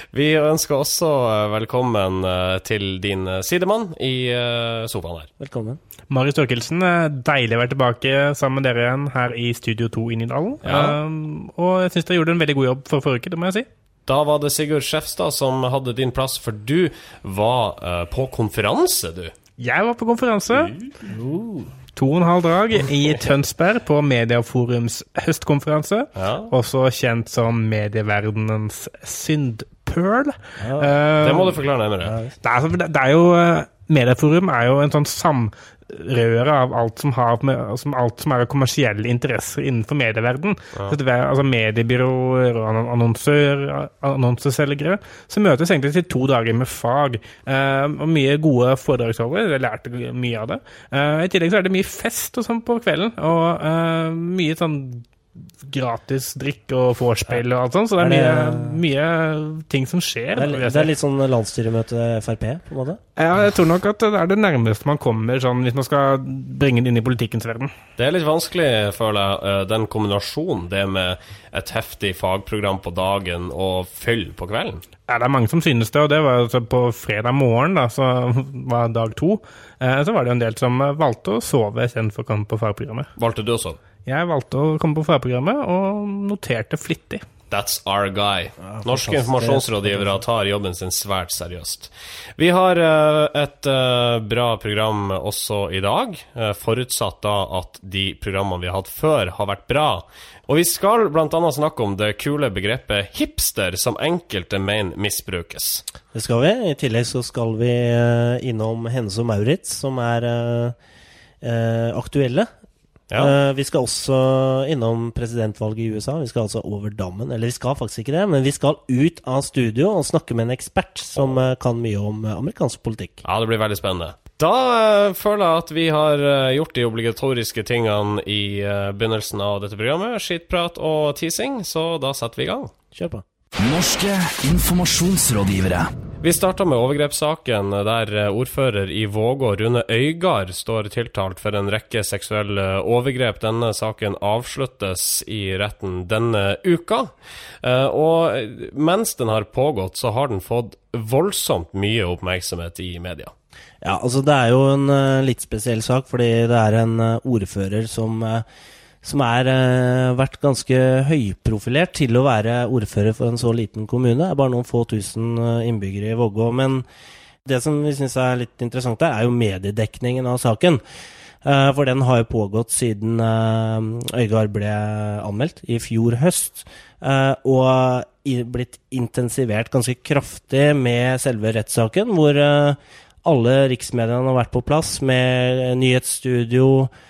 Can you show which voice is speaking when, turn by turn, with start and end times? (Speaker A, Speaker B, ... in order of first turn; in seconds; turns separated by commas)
Speaker A: 0.1-5.3, Speaker B: 5.4-5.8, Speaker C: 6.1-13.7, Speaker A: 10.6-11.0, Speaker A: 14.1-19.3, Speaker C: 19.6-20.7, Speaker B: 21.1-21.7, Speaker C: 21.9-31.5, Speaker A: 26.2-26.5, Speaker B: 30.6-30.9, Speaker A: 31.2-32.2, Speaker B: 32.0-32.3, Speaker C: 32.4-55.0, Speaker C: 55.6-60.9, Speaker B: 58.0-58.8, Speaker B: 60.4-63.0, Speaker C: 63.2-67.7, Speaker A: 68.0-74.8, Speaker C: 75.1-83.1, Speaker A: 83.2-83.8, Speaker C: 84.1-87.2, Speaker A: 87.5-105.8, Speaker B: 88.7-90.2, Speaker B: 106.1-110.8, Speaker B: 111.4-112.5, Speaker A: 113.1-113.3, Speaker B: 113.2-123.2, Speaker A: 123.2-132.7, Speaker B: 132.9-133.2, Speaker D: 133.6-135.9, Speaker A: 136.2-147.1, Speaker A: 147.6-153.3, Speaker B: 153.8-158.4, Speaker B: 159.0-166.8, Speaker B: 167.4-170.8, Speaker B: 171.4-186.9